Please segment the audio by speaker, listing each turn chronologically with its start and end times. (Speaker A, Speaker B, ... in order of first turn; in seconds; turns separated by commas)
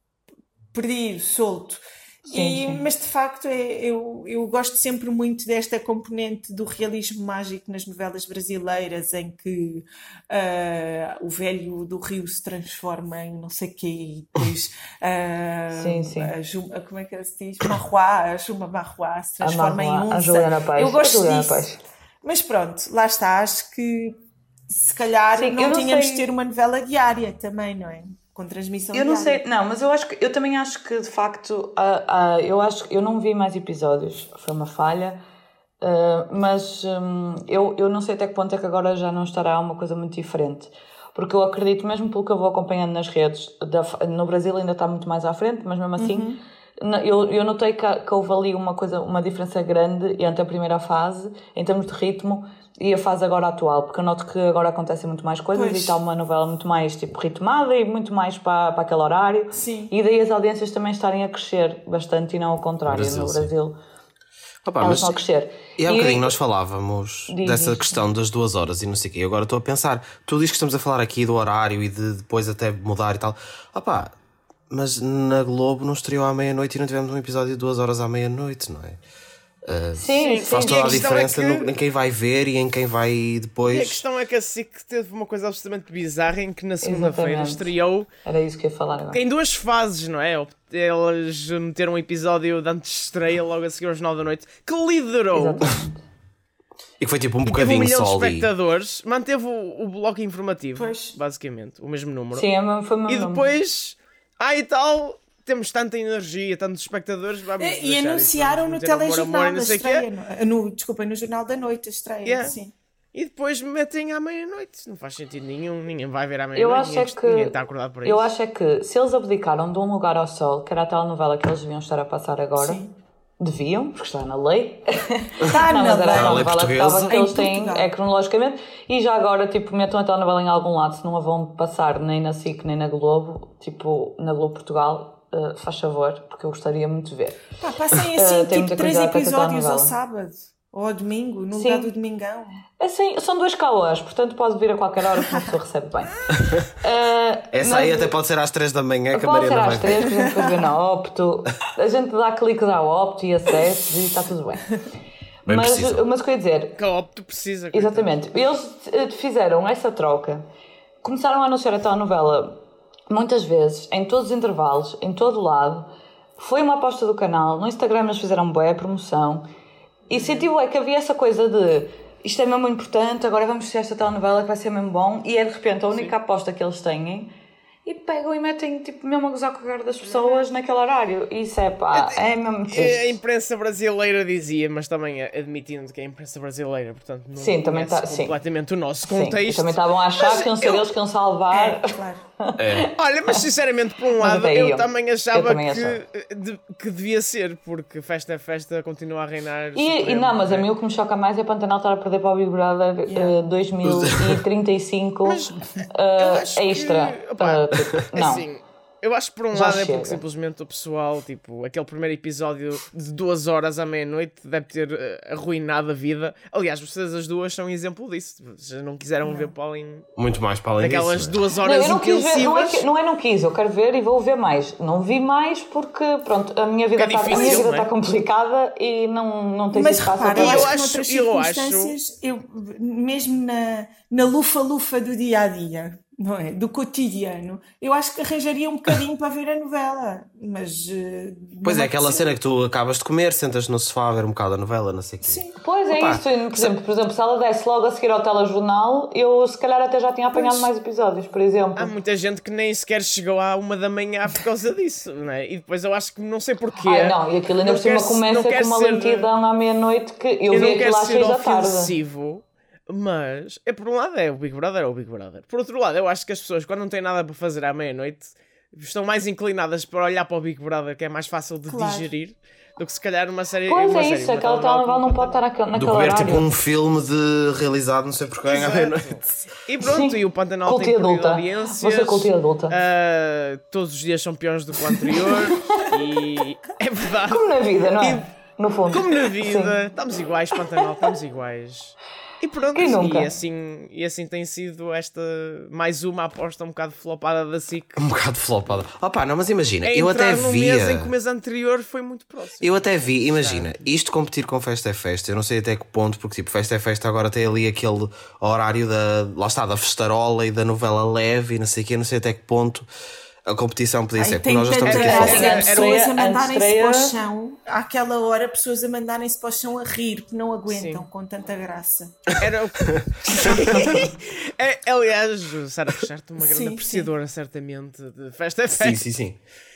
Speaker A: 0.7-21.7, Speaker B: 2.3-2.8, Speaker B: 15.7-16.3, Speaker B: 19.4-21.8, Speaker A: 22.2-29.4, Speaker B: 25.3-26.3, Speaker B: 28.9-35.2, Speaker B: 35.8-63.8, Speaker A: 46.0-46.4, Speaker A: 55.5-56.0, Speaker A: 59.5-59.9, Speaker C: 62.9-63.5, Speaker C: 64.6-65.2, Speaker B: 64.8-66.3, Speaker C: 65.8-74.1, Speaker B: 67.3-67.9, Speaker C: 74.7-79.0, Speaker C: 79.6-84.0, Speaker B: 79.9-81.1, Speaker D: 80.2-81.7, Speaker D: 83.7-88.1, Speaker B: 86.8-87.7, Speaker B: 88.2-89.2, Speaker D: 89.1-95.7, Speaker B: 95.3-96.0, Speaker C: 97.0-98.5, Speaker D: 97.4-102.5, Speaker A: 100.7-101.2, Speaker B: 102.3-103.5, Speaker D: 103.1-110.1, Speaker A: 107.6-112.7, Speaker D: 112.2-112.5, Speaker D: 113.1-118.3, Speaker B: 116.5-122.8, Speaker A: 122.6-122.9, Speaker B: 123.4-137.4, Speaker A: 125.4-127.9, Speaker C: 126.1-127.1, Speaker A: 137.6-142.6, Speaker B: 138.1-139.9, Speaker B: 141.5-141.9, Speaker B: 142.8-148.1, Speaker C: 147.5-150.0, Speaker B: 149.1-154.7, Speaker C: 155.4-156.0, Speaker B: 155.4-156.8, Speaker D: 156.8-158.2, Speaker B: 157.7-160.4, Speaker B: 161.0-169.5, Speaker B: 170.1-177.3, Speaker B: 177.8-183.2, Speaker D: 181.9-190.9, Speaker B: 187.4-188.4, Speaker B: 189.1-193.4, Speaker A: 191.5-192.2, Speaker C: 192.6-192.9, Speaker D: 192.9-200.7, Speaker B: 194.2-196.0, Speaker B: 199.7-208.5, Speaker A: 203.1-203.3, Speaker C: 203.8-204.4, Speaker D: 205.2-205.6, Speaker D: 206.2-220.1, Speaker B: 209.5-210.2, Speaker A: 219.2-219.5, Speaker C: 220.2-221.4, Speaker D: 220.8-222.8, Speaker B: 221.6-230.7, Speaker D: 226.9-227.9, Speaker A: 227.3-227.7, Speaker A: 229.7-242.3, Speaker D: 230.3-231.9, Speaker C: 241.6-246.7, Speaker A: 245.2-245.5, Speaker B: 245.5-251.9, Speaker A: 250.3-250.7, Speaker D: 251.8-259.3, Speaker B: 256.8-261.9, Speaker D: 260.5-275.4, Speaker A: 271.7-272.1, Speaker B: 273.7-276.5, Speaker C: 275.7-279.4, Speaker D: 278.4-287.5, Speaker B: 279.8-282.7, Speaker B: 287.3-289.8, Speaker D: 288.0-288.3, Speaker D: 288.9-298.1, Speaker B: 292.7-293.3, Speaker C: 298.0-301.1, Speaker D: 299.8-303.8, Speaker C: 302.6-312.9, Speaker C: 313.4-315.5, Speaker A: 314.2-322.3, Speaker D: 314.8-316.0, Speaker B: 315.0-317.2, Speaker D: 320.7-321.1, Speaker D: 322.4-329.1, Speaker A: 323.3-324.1, Speaker A: 326.4-327.1, Speaker C: 328.8-329.4